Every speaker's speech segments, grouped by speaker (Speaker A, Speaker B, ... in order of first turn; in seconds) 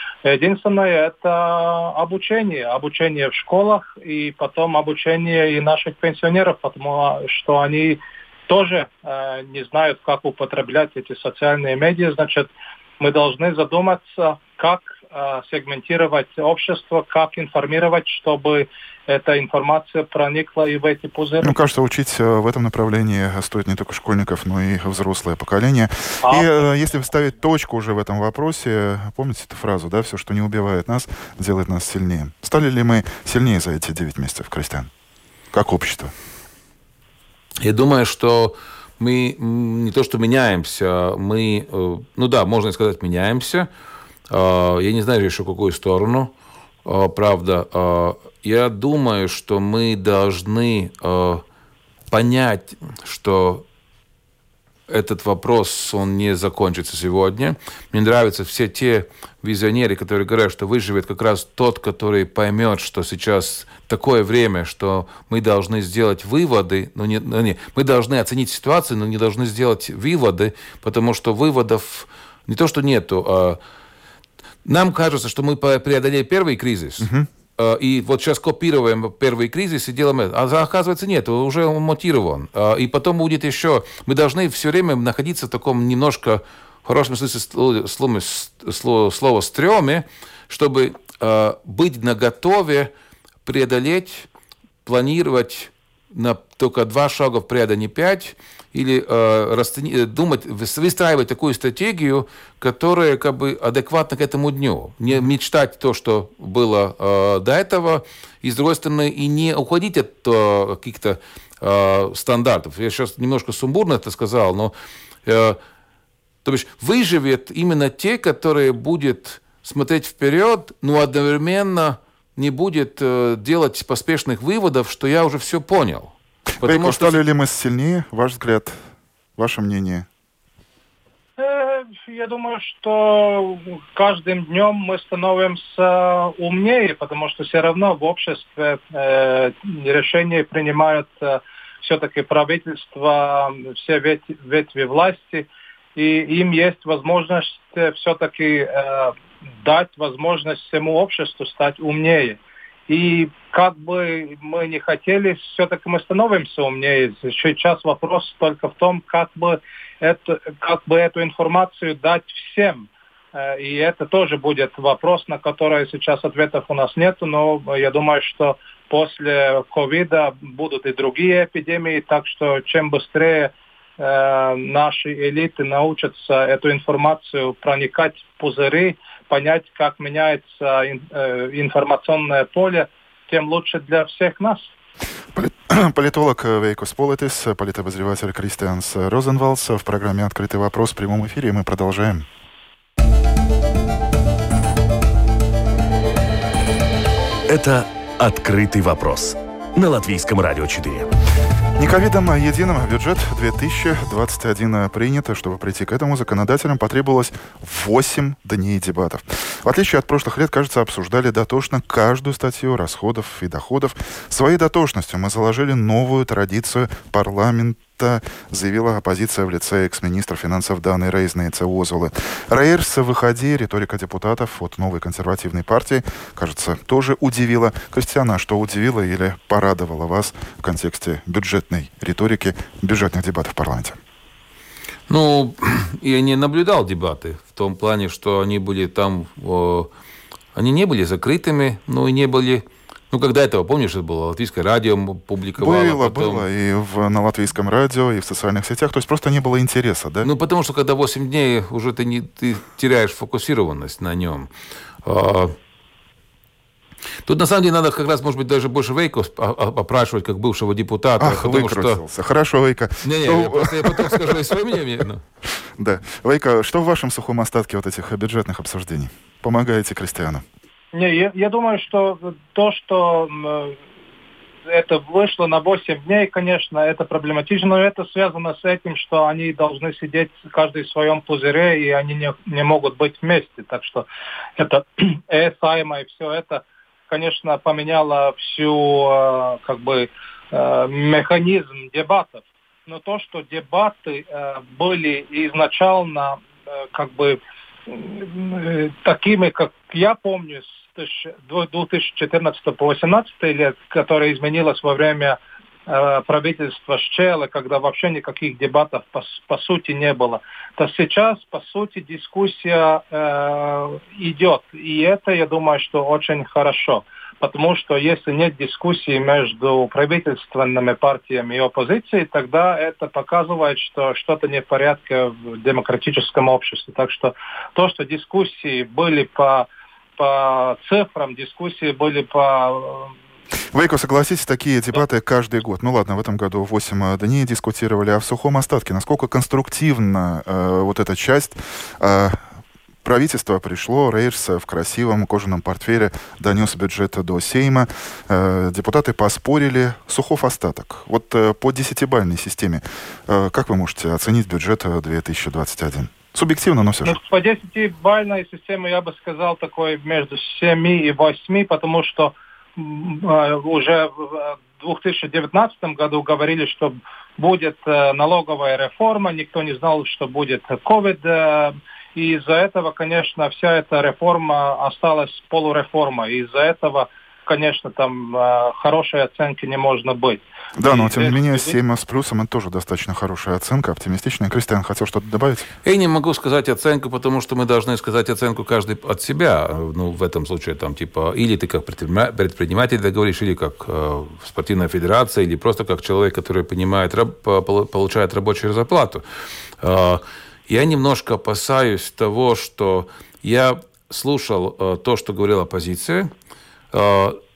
Speaker A: 0.2-21.6, 26.2-26.5, 131.4-184.7, 270.9-273.8, 274.6-284.1, 284.6-296.4, 296.9-333.1, 357.0-381.8
Speaker B: 21.4-34.9, 35.5-36.1, 77.0-77.3, 126.6-128.8, 129.4-130.1, 185.3-192.3, 201.8-234.0, 245.6-250.3, 261.2-264.4, 265.8-270.4, 333.7-342.4, 343.0-357.2, 380.8-385.7
Speaker C: 37.6-43.7, 44.3-46.3, 46.8-51.4, 52.1-53.6, 54.9-73.6, 74.6-92.9, 93.4-94.3, 94.8-114.7, 115.2-115.6, 116.4-127.2, 235.1-239.9, 240.5-246.4, 250.2-254.5, 255.0-255.5, 257.2-262.0, 263.0-265.2, 385.8-399.2, 399.8-406.3, 406.9-407.4
Speaker D: 197.5-201.1